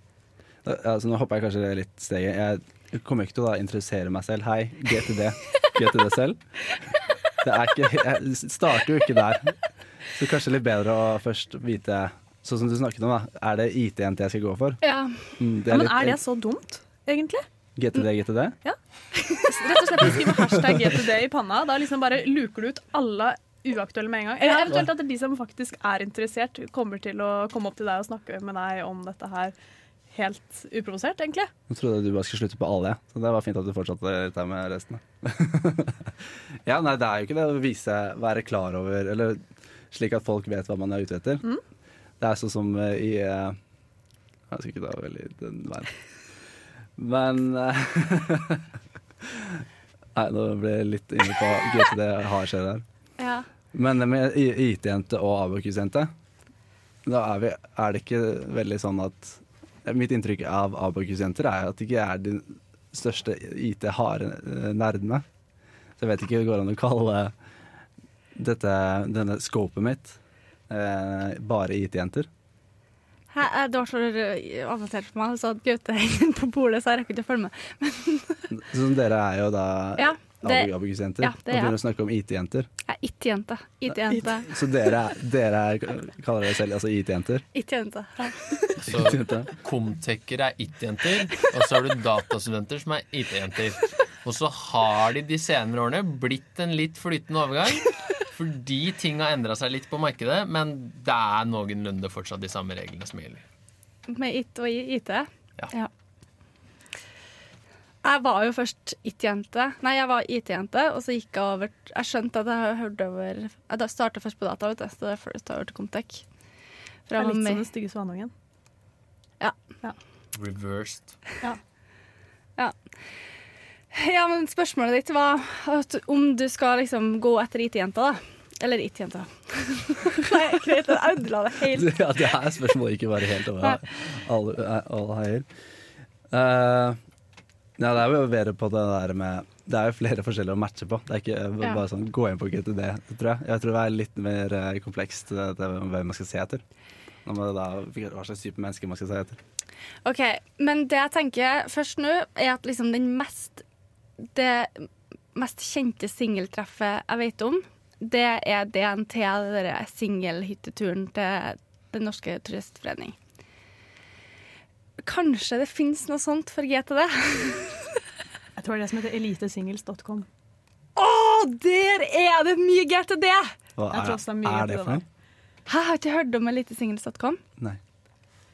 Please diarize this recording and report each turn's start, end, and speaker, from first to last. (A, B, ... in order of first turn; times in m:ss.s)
0:00.6-0:06.4 A
0:07.4-0:14.8 A
0:14.8-0:15.3 B
0:15.4-0:16.2 A
0:15.7-0:17.4 C
0:17.8-0:18.6 A
0:19.2-0:20.0 B
0:19.3-0:29.5 C
0:20.4-0:21.0 A
0:24.4-0:24.8 B
0:30.1-0:31.5 C
0:31.7-0:41.4 A
0:42.2-0:43.6 A
0:44.5-0:45.9 A
0:47.0-0:52.8 A
0:53.2-0:53.5 B
0:53.7-0:56.1 A
0:57.1-1:05.2 A
1:06.0-1:07.4 A
1:08.4-1:10.2 A
1:10.7-1:12.3 A
1:13.3-1:18.5 B
1:18.5-1:22.7 A
1:20.0-1:21.8 B
1:22.9-1:24.6 B
1:24.1-1:27.5 A
1:27.5-1:28.9 B
1:28.8-1:43.4 D
1:28.9-1:29.5 A
1:44.1-1:45.9 B
1:48.0-1:56.2 B
1:57.1-1:57.6 B
1:57.2-1:58.3 C
2:00.3-2:01.2 D
2:03.9-2:12.0 B
2:11.7-2:15.5 A
2:16.3-2:17.0 A
2:17.8-2:26.6 A
2:27.2-2:29.4 A
2:30.0-2:33.6 B
2:34.3-2:43.2 B
2:45.0-2:48.0 B
2:48.6-2:50.3 C
2:51.0-2:53.5 B
2:53.8-2:55.0 A
2:53.9-2:55.0 C
2:55.7-2:57.4 B